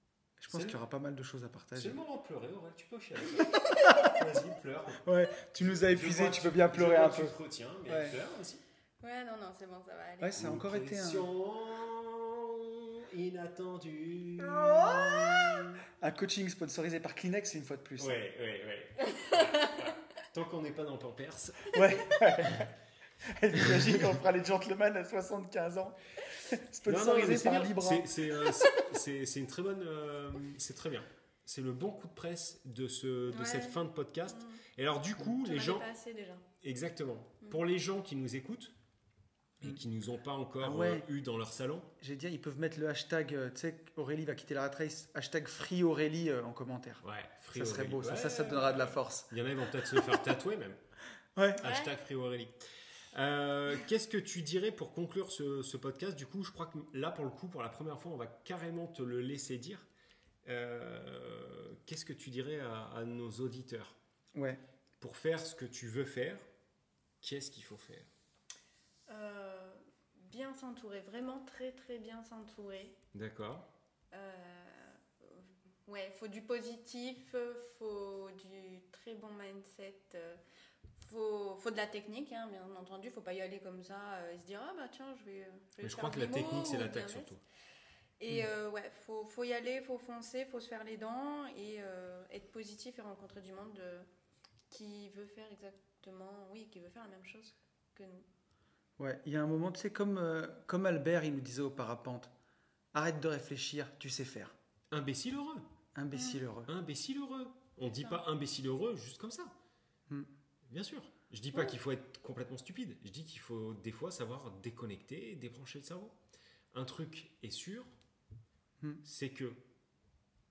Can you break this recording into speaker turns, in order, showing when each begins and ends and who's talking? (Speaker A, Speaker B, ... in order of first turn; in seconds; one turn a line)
Speaker A: 0.4-2.0
Speaker B: 0.5-0.8
Speaker B: 1.7-5.0
Speaker A: 3.5-4.2
Speaker A: 5.0-8.2
Speaker B: 5.6-8.6
Speaker C: 9.0-10.4
Speaker A: 10.2-11.3
Speaker B: 10.3-15.8
Speaker A: 14.4-18.2
Speaker B: 18.0-22.7
Speaker C: 19.2-19.8
Speaker A: 21.7-22.7
Speaker A: 23.2-28.2
Speaker B: 23.5-24.2
Speaker B: 26.8-35.9
Speaker C: 28.5-28.8
Speaker C: 33.3-34.6
Speaker C: 35.2-36.4
Speaker B: 36.6-38.7
Speaker B: 39.6-41.9
Speaker A: 40.6-41.1
Speaker A: 42.0-49.3
Speaker B: 47.0-50.8
Speaker A: 49.8-50.2
Speaker A: 51.4-51.6
Speaker C: 51.6-51.9
Speaker B: 51.6-52.6
Speaker B: 53.1-59.9
Speaker B: 60.4-64.0
Speaker A: 64.3-64.6
Speaker B: 65.0-66.5
Speaker B: 67.2-68.1
Speaker C: 69.1-73.0
Speaker B: 73.1-73.7
Speaker C: 74.1-80.4
Speaker C: 81.0-87.3
Speaker B: 85.8-87.4
Speaker C: 88.2-94.1
Speaker C: 94.7-98.2
Speaker A: 99.0-102.3
Speaker A: 102.9-104.5
Speaker B: 104.9-105.7
Speaker A: 106.0-106.7
Speaker C: 106.1-106.4
Speaker B: 106.7-109.5
Speaker B: 110.7-116.2
Speaker B: 116.7-118.0
Speaker B: 119.0-119.6